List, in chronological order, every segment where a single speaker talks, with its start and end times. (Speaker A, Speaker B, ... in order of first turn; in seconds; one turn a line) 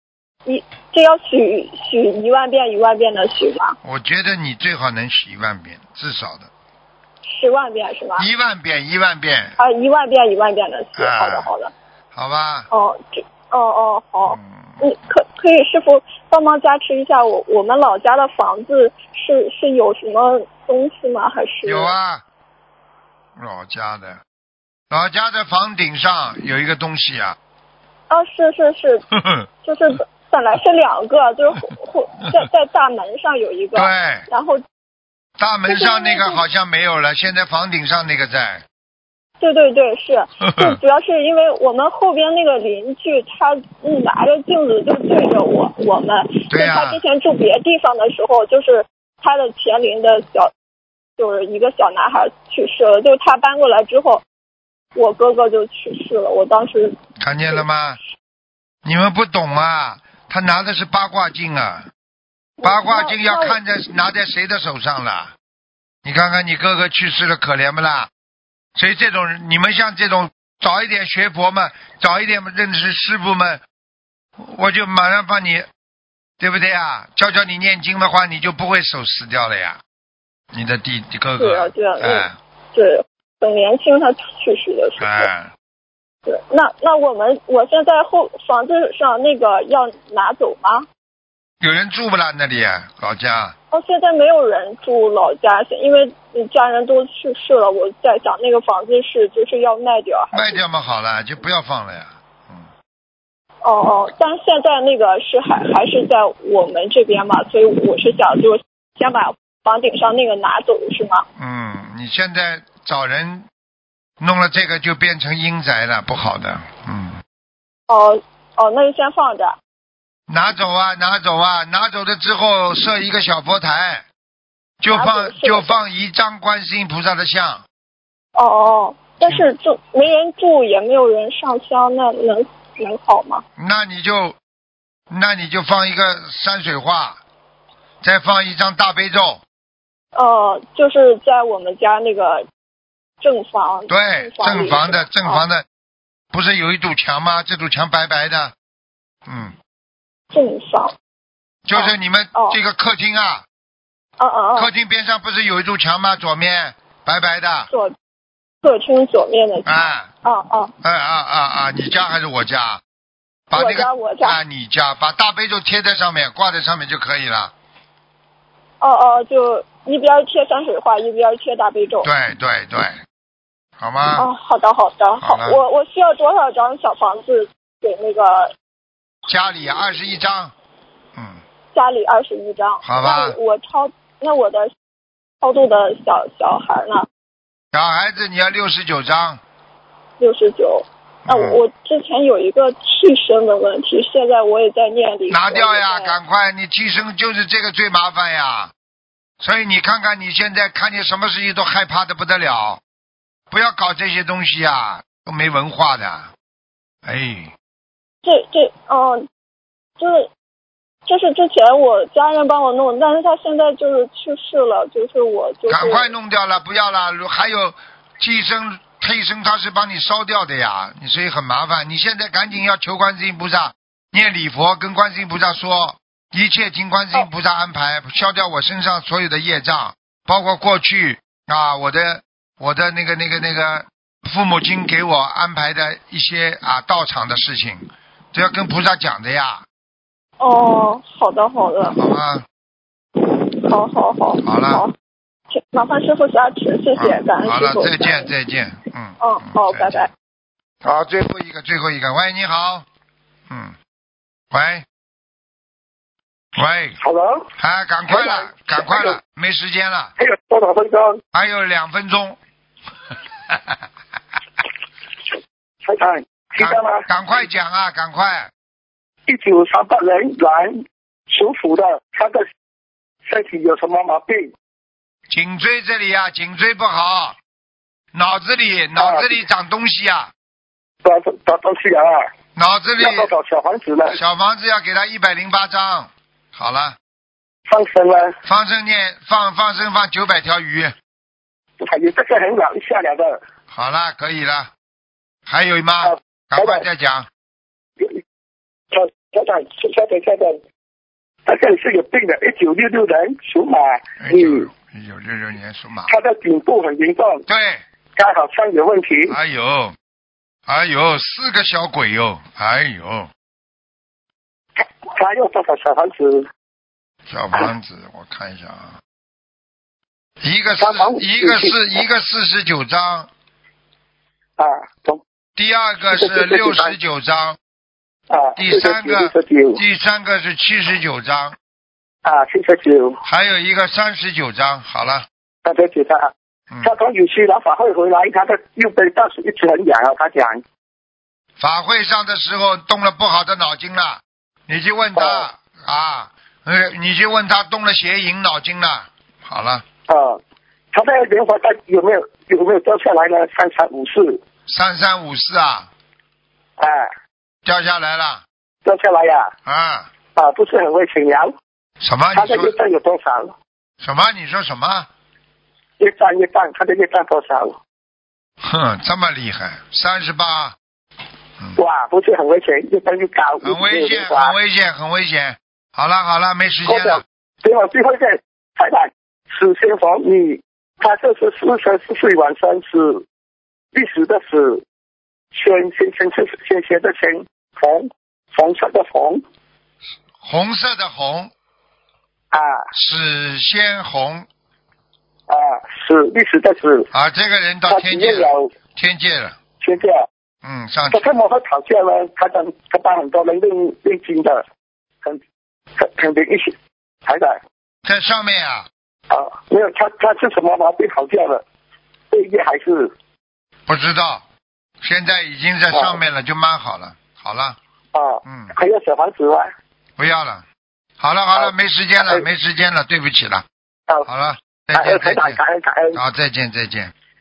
Speaker A: 0.5-3.8
Speaker B: 3.8-6.5
Speaker A: 7.3-8.3
Speaker B: 8.2-9.6
Speaker A: 9.6-11.7
Speaker B: 11.0-11.5
Speaker B: 12.1-12.7
Speaker A: 12.7-21.9
Speaker B: 14.3-14.9
Speaker B: 21.6-22.2
Speaker B: 23.4-24.2
Speaker B: 24.9-27.4
Speaker A: 28.1-29.1
Speaker B: 29.1-29.5
Speaker A: 29.6-34.6
Speaker B: 33.8-34.3
Speaker B: 35.4-38.6
Speaker A: 35.7-36.4
Speaker A: 39.4-50.5
Speaker B: 40.4-40.8
Speaker B: 46.5-47.0
Speaker A: 51.2-54.2
Speaker A: 55.0-56.9
Speaker B: 57.2-58.0
Speaker B: 58.8-61.9
Speaker A: 62.6-63.6
Speaker B: 62.6-65.3
Speaker B: 66.0-68.1
Speaker B: 68.8-73.6
Speaker B: 74.4-75.7
Speaker B: 76.4-79.8
Speaker B: 80.5-82.3
Speaker A: 81.4-85.3
Speaker B: 85.0-85.5
Speaker A: 86.3-90.9
Speaker B: 91.6-93.5
Speaker A: 93.7-100.6
Speaker B: 100.3-102.7
Speaker A: 103.6-111.2
Speaker B: 111.4-113.5
Speaker B: 114.2-117.2
Speaker A: 117.9-119.6
Speaker B: 120.3-124.0
Speaker B: 124.8-127.6
Speaker A: 124.9-125.8
Speaker A: 128.4-133.4
Speaker B: 133.6-134.4
Speaker B: 135.1-137.2
Speaker B: 138.0-139.4
Speaker A: 140.2-142.4
Speaker A: 143.2-145.4
Speaker B: 143.9-145.7
Speaker B: 146.3-148.5
Speaker B: 149.3-149.6
Speaker A: 150.3-150.9
Speaker B: 151.7-153.4
Speaker A: 151.7-152.6
Speaker A: 154.2-154.7
Speaker B: 154.6-157.7
Speaker A: 158.6-160.7
Speaker B: 159.7-160.1
Speaker B: 160.8-162.8
Speaker B: 163.5-167.5
Speaker A: 163.5-164.4
Speaker A: 168.8-172.1
Speaker B: 172.0-173.0
Speaker B: 173.8-174.3
Speaker A: 174.2-178.5
Speaker B: 175.2-175.6
Speaker B: 179.3-180.5
Speaker B: 181.2-181.4
Speaker A: 181.7-184.7
Speaker B: 182.8-183.4
Speaker A: 185.4-187.1
Speaker B: 187.7-189.4
Speaker A: 190.2-196.2
Speaker B: 191.2-191.6
Speaker B: 195.3-198.7
Speaker B: 199.4-202.8
Speaker B: 203.5-206.3
Speaker B: 207.1-207.5
Speaker A: 208.2-209.3
Speaker A: 210.0-210.3
Speaker A: 211.1-216.1
Speaker B: 215.7-239.7
Speaker A: 240.4-242.0
Speaker B: 241.9-242.4
Speaker A: 243.2-244.9
Speaker B: 244.4-244.8
Speaker A: 245.5-248.3
Speaker B: 247.0-250.1
Speaker A: 249.2-250.1
Speaker B: 250.8-252.9
Speaker B: 253.5-253.8
Speaker B: 254.5-254.9
Speaker B: 256.6-257.0
Speaker C: 257.0-257.5
Speaker B: 257.6-260.1
Speaker C: 258.1-259.2
Speaker C: 260.2-261.2
Speaker B: 261.3-262.4
Speaker B: 263.5-263.8
Speaker C: 265.8-267.1
Speaker B: 266.6-268.5
Speaker C: 269.3-272.5
Speaker C: 273.3-274.5
Speaker B: 275.3-277.4
Speaker B: 278.1-280.3
Speaker C: 279.0-279.3
Speaker C: 281.0-282.3
Speaker B: 282.6-283.3
Speaker C: 283.0-284.2
Speaker B: 284.1-287.0
Speaker C: 287.7-288.4
Speaker B: 288.4-290.9
Speaker C: 291.8-293.4
Speaker B: 293.7-294.7
Speaker B: 295.5-297.3
Speaker C: 296.1-296.8
Speaker C: 298.9-300.6
Speaker C: 301.5-304.7
Speaker B: 304.2-306.2
Speaker C: 306.1-307.4
Speaker B: 307.5-307.8
Speaker C: 308.2-309.4
Speaker B: 309.3-310.0
Speaker B: 310.7-313.3
Speaker C: 314.8-316.5
Speaker B: 317.3-319.0
Speaker B: 320.4-323.3
Speaker C: 320.8-321.8
Speaker C: 324.6-325.2
Speaker B: 325.6-327.6
Speaker C: 326.1-326.9
Speaker C: 328.3-329.8
Speaker B: 328.6-331.6
Speaker C: 332.2-333.2
Speaker B: 333.3-335.3
Speaker C: 335.6-336.3
Speaker C: 336.8-340.6
Speaker B: 341.6-349.8
Speaker C: 345.2-345.5
Speaker C: 350.1-350.4
Speaker C: 350.9-354.4
Speaker B: 354.7-355.9
Speaker C: 356.8-357.1
Speaker B: 357.6-358.4
Speaker C: 358.9-359.5
Speaker B: 359.6-360.1
Speaker C: 360.4-361.5
Speaker B: 362.0-362.8
Speaker C: 362.3-363.6
Speaker B: 364.0-365.1
Speaker C: 366.0-367.8
Speaker B: 368.6-370.8
Speaker C: 371.8-374.5
Speaker B: 373.6-377.2
Speaker C: 376.9-383.2
Speaker C: 383.9-384.8
Speaker C: 385.5-389.4
Speaker B: 390.4-391.5
Speaker C: 392.5-392.9
Speaker B: 392.9-394.5
Speaker C: 395.5-397.1
Speaker B: 397.1-399.6
Speaker C: 397.9-398.7
Speaker C: 399.8-400.3
Speaker B: 400.6-401.2
Speaker C: 401.1-404.6
Speaker C: 406.0-407.6
Speaker B: 408.1-408.9
Speaker C: 409.3-411.6
Speaker C: 412.3-413.1
Speaker B: 413.9-414.4
Speaker B: 415.0-417.8
Speaker C: 418.1-419.7
Speaker B: 418.4-418.7
Speaker B: 420.2-420.6
Speaker B: 421.2-423.6
Speaker C: 421.6-422.4
Speaker B: 424.3-425.6
Speaker C: 424.9-426.2
Speaker B: 426.1-427.1